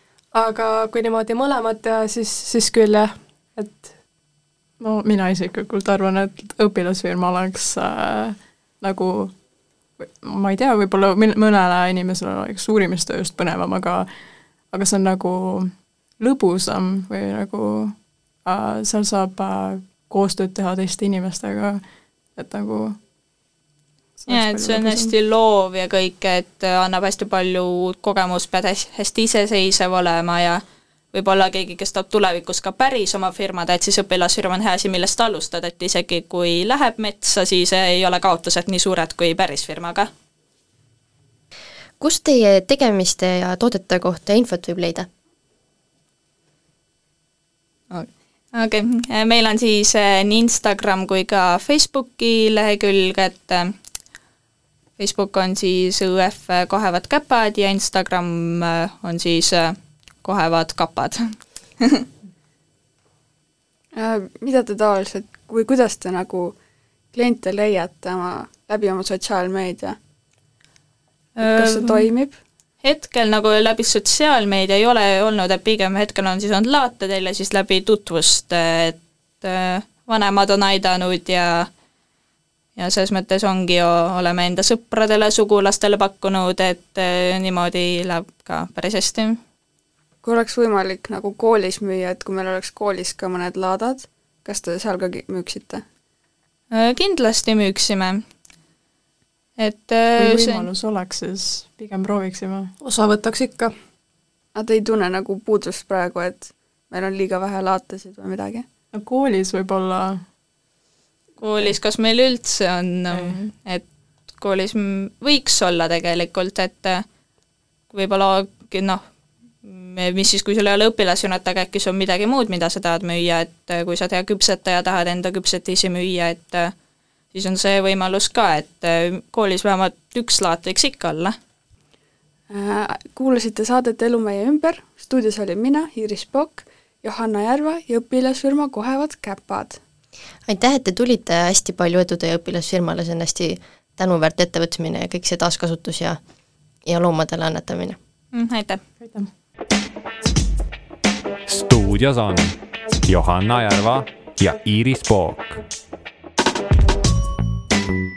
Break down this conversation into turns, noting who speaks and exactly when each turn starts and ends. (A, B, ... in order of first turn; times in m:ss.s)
0:00.3-0:03.9 A
0:04.8-0:09.3 B
0:10.0-0:14.1 B
0:14.7-0:21.8 B
0:22.4-0:23.0 B
0:24.2-0:25.1 B
0:24.3-0:30.6 C
0:31.1-0:40.1 C
0:42.0-0:45.1 D
0:47.9-0:53.7 C
0:55.0-1:02.1 C
1:03.9-1:06.6 E
1:07.1-1:10.0 E
1:11.4-1:12.1 C
1:11.4-1:12.4 E
1:12.8-1:21.7 C
1:22.8-1:29.4 C
1:30.2-1:35.8 E
1:36.7-1:38.2 C
1:39.6-1:40.7 C
1:40.2-1:42.7 B
1:42.8-1:43.7 A
1:44.6-1:48.7 E
1:48.9-1:50.2 B
1:51.4-1:53.8 C
1:53.1-1:53.4 B
1:54.4-1:57.0 C
1:57.9-1:59.0 C
1:59.6-2:06.7 C
2:07.3-2:11.4 C
2:12.5-2:19.8 E
2:20.5-2:26.2 D
2:26.8-2:28.0 D
2:28.3-2:28.8 C
2:29.0-2:29.3 B
2:31.5-2:32.6 F
2:33.1-2:35.6 F